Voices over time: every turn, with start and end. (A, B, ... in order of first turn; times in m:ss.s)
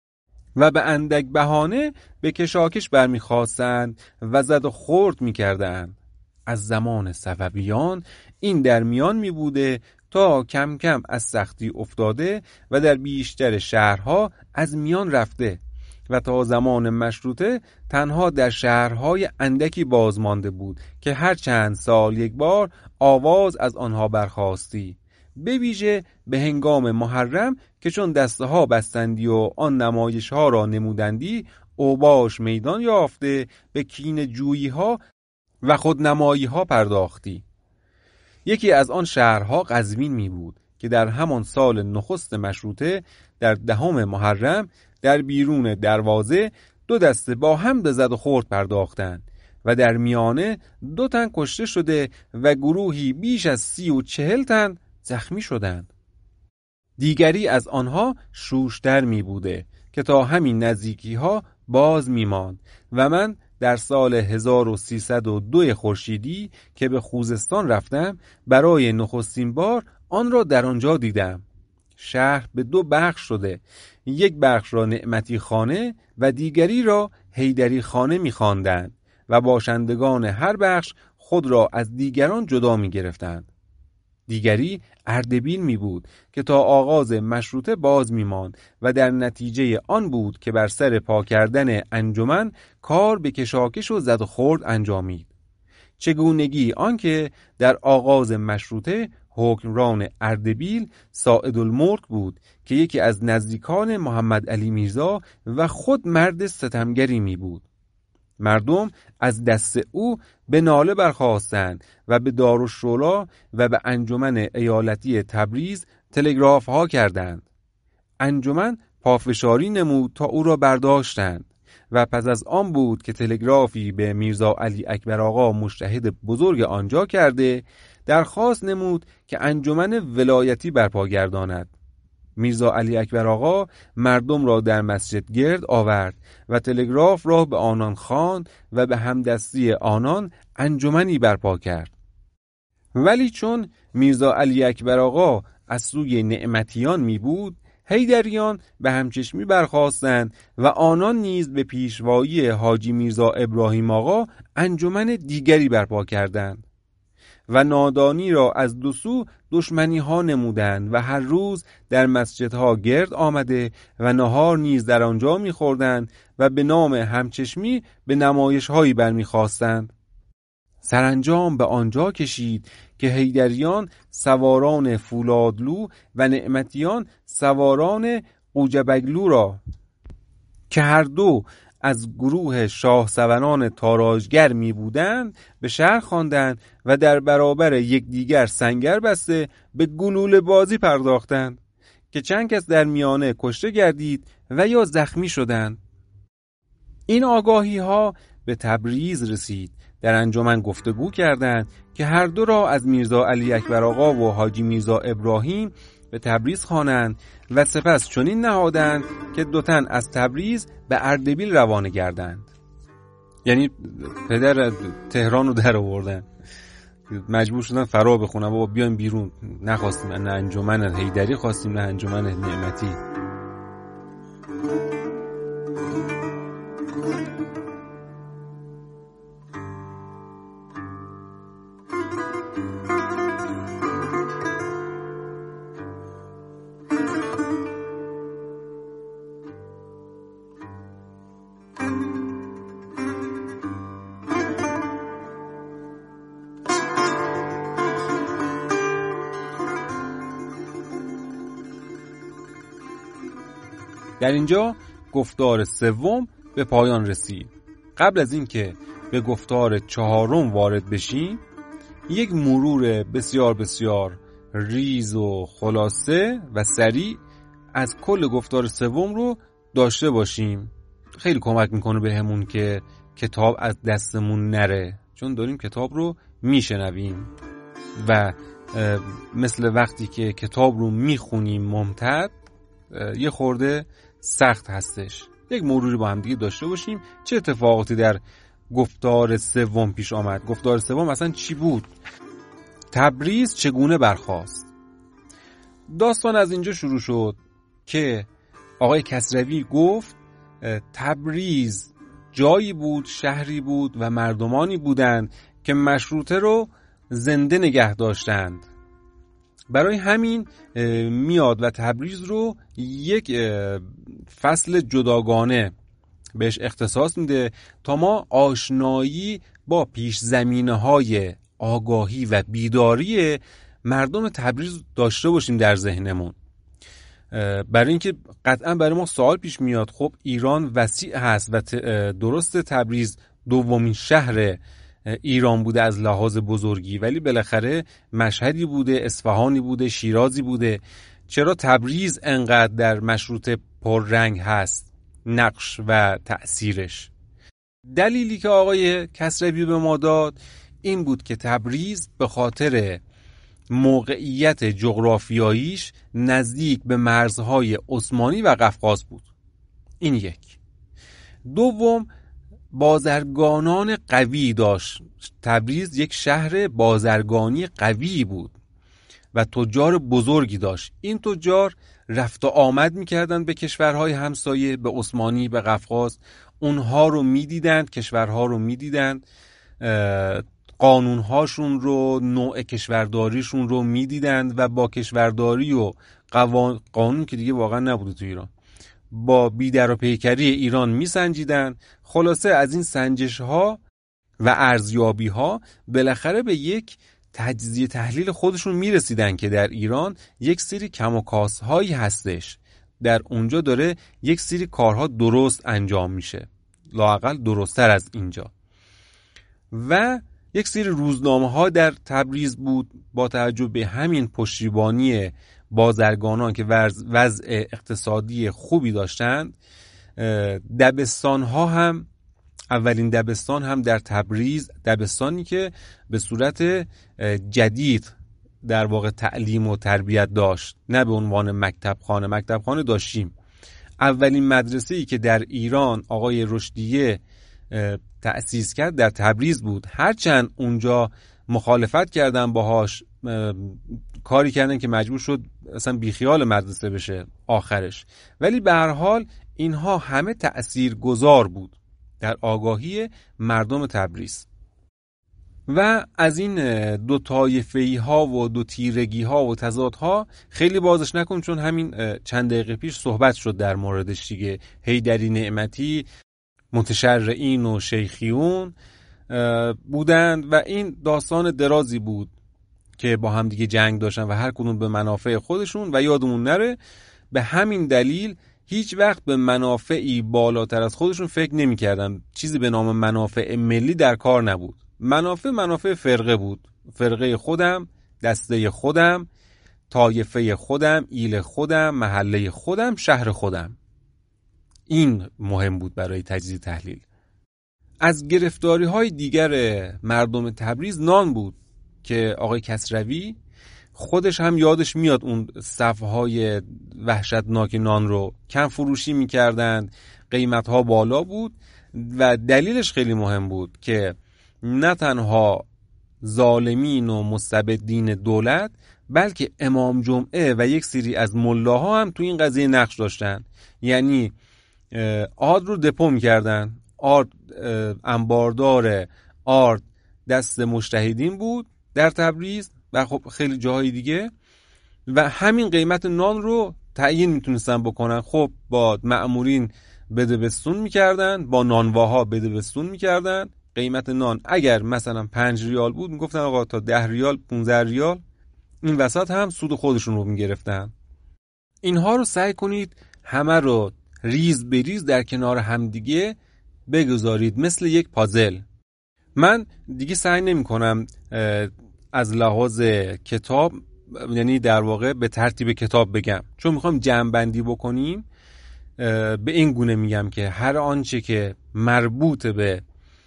0:00.6-0:35.0 A
0:35.6-0:37.4 A
0:38.4-0:55.9 A
0:57.0-1:11.4 A
1:12.0-1:23.5 A
1:24.3-1:35.3 A
1:36.0-1:47.6 A
1:48.4-1:57.5 A
1:58.2-2:11.7 A
2:12.4-2:21.9 A
2:23.0-2:36.6 A
2:37.5-2:49.9 A
2:50.8-2:59.6 A
3:00.7-3:11.6 A
3:12.1-3:15.8 A
3:17.1-3:32.5 A
3:33.4-3:36.3 A
3:37.1-3:43.0 A
4:14.2-4:21.4 A
4:22.1-4:27.2 A
4:27.7-4:37.3 A
4:38.0-4:42.3 A
4:42.9-4:51.9 A
4:52.9-4:54.7 A
4:55.9-4:58.3 A
4:58.8-5:08.7 A
5:09.7-5:15.7 A
5:16.4-5:26.4 A
5:27.3-5:47.1 A
5:48.0-5:53.0 A
5:53.7-5:59.3 A
6:00.0-6:00.6 A
6:01.5-6:02.1 A
6:02.7-6:08.6 A
6:09.3-6:19.2 A
6:19.8-6:28.5 A
6:29.1-6:33.8 A
6:34.4-6:48.5 A
6:49.7-6:59.6 A
7:00.2-7:02.1 A
7:02.7-7:13.4 A
7:14.0-7:34.5 A
7:35.7-7:46.1 A
7:46.7-7:48.8 A
7:49.3-7:52.3 A
7:53.0-7:56.8 A
7:57.3-8:09.3 A
8:09.9-8:13.8 A
8:14.9-8:17.0 A
8:18.0-8:23.4 A
8:24.0-8:35.7 A
8:36.2-8:44.3 A
8:44.9-8:54.3 A
8:55.1-9:08.2 A
9:08.8-9:10.9 A
9:11.8-9:18.6 A
9:19.4-9:28.3 A
9:29.0-9:32.8 A